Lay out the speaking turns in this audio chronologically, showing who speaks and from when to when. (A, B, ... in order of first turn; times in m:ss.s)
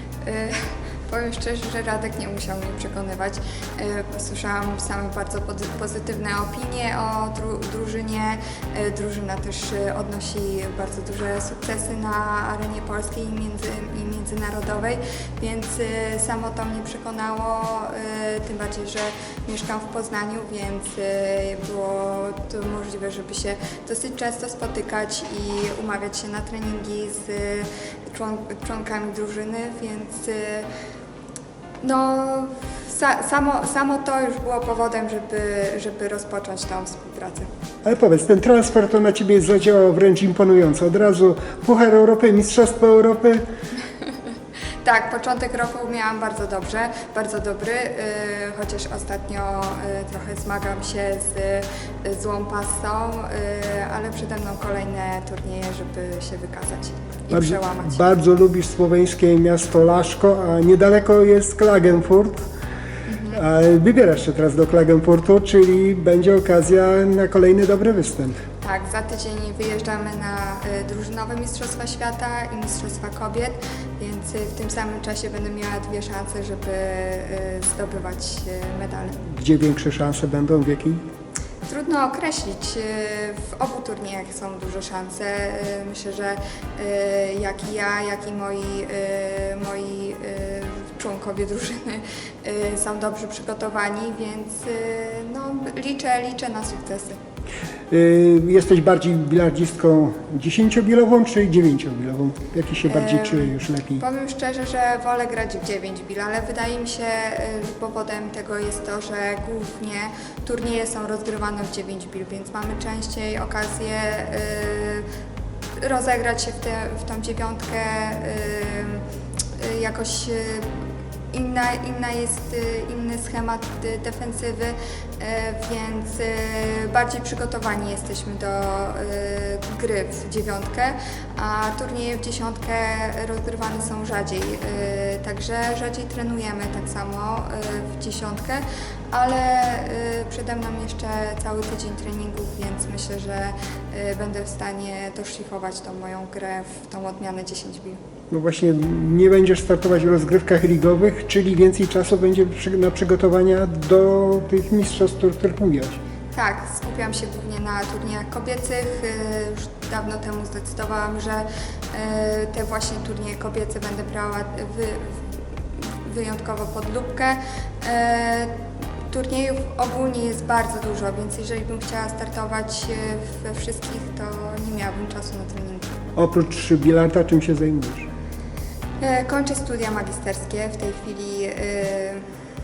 0:00.2-0:30.7 A
0:31.8-0:37.5 A
0:37.8-0:43.4 B
0:44.8-0:58.0 A
0:57.3-1:02.5 B
1:03.1-1:03.4 A
1:03.3-1:08.4 B
1:08.6-1:19.2 A
1:19.2-1:21.0 B
1:21.6-1:37.2 A
1:37.9-1:44.0 B
1:42.9-1:55.1 A
1:55.8-1:59.0 A
1:59.6-2:00.8 A
2:01.3-2:28.0 A
2:28.3-2:36.0 B
2:36.3-2:48.5 A
2:49.1-2:55.9 A
2:56.2-2:58.1 B
2:59.0-3:02.2 A